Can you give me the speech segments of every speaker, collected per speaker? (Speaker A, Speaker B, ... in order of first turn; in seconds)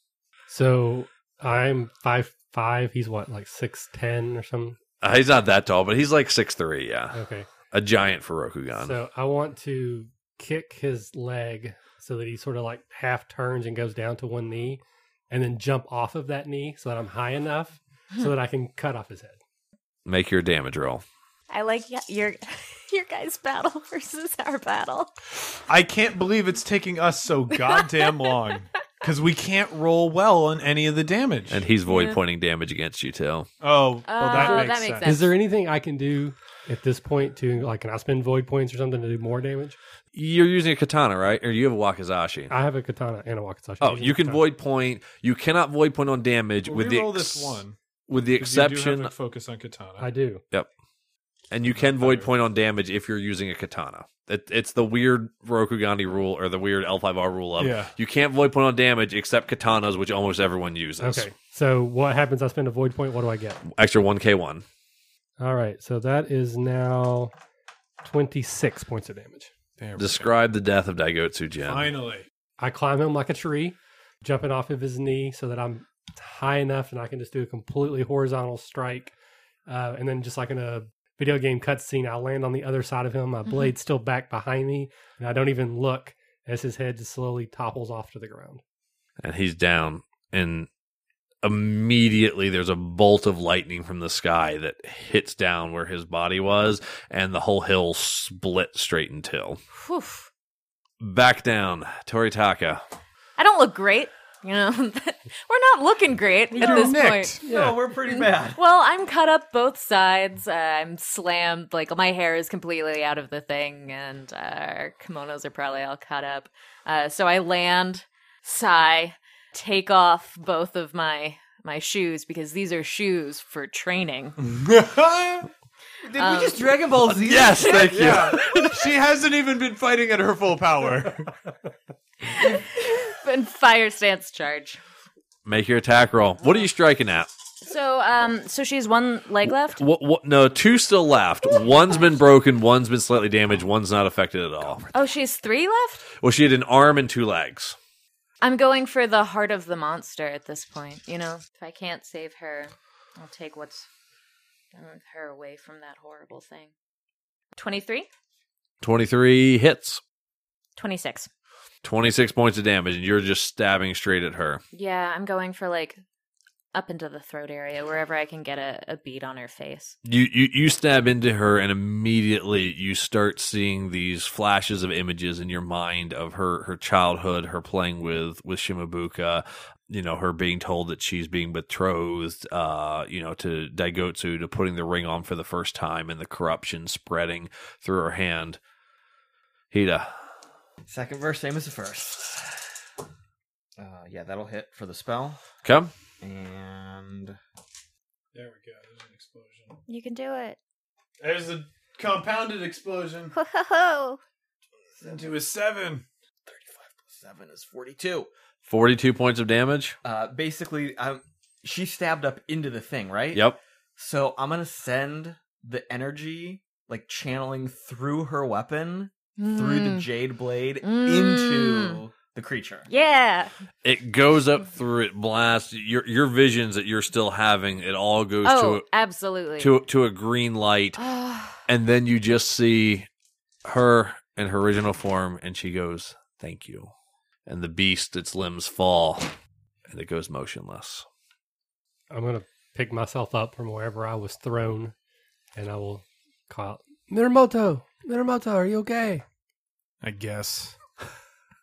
Speaker A: 0.5-4.8, 7.1-7.5, 8.8-19.4, 34.4-39.8, 42.5-44.4, 50.0-50.4, 61.0-63.6, 65.4-67.3, 68.0-69.5, 72.6-79.1, 79.7-88.6, 242.1-244.9, 245.6-249.2
Speaker B: 5.0-9.0, 20.1-21.0, 31.5-33.5, 40.1-42.5, 43.8-49.1, 51.5-61.3, 63.8-64.6, 70.0-71.9, 89.2-90.7, 91.4-99.6, 101.0-102.8, 127.1-128.8, 135.5-137.3, 139.7-144.9, 146.1-147.8, 158.8-160.0, 161.8-164.6, 170.1-188.6, 189.7-190.3, 195.7-195.9, 208.7-210.0, 213.3-213.6, 223.8-228.8, 229.6-231.0, 231.7-233.1, 233.7-236.9, 237.5-239.4, 239.9-241.1
Speaker C: 21.5-25.1, 31.9-32.2, 34.1-35.3, 83.5-83.7, 99.7-100.3, 103.4-107.5, 108.1-124.4, 126.2-126.8, 127.7-128.7, 132.2-134.8, 137.6-139.8, 144.9-146.0, 148.4-153.9, 154.7-156.7, 157.6-158.1, 160.8-161.3, 164.7-166.0, 166.7-169.9, 199.9-200.6, 203.3-204.2, 219.4-220.1, 220.8-222.0, 222.9-223.5, 228.4-229.7, 231.0-231.6
Speaker D: 25.7-31.6, 33.6-35.2, 46.6-47.8, 48.4-50.1, 51.7-52.3, 57.6-58.0, 69.8-70.3, 71.6-72.3, 106.5-107.6, 124.4-125.5, 128.0-131.4, 198.3-199.8, 201.2-203.4, 205.0-206.1, 250.0-250.8
Speaker E: 107.4-108.6, 126.0-128.2, 190.9-192.6, 193.8-195.4, 196.2-197.4, 206.5-208.3, 210.0-213.4, 214.0-222.9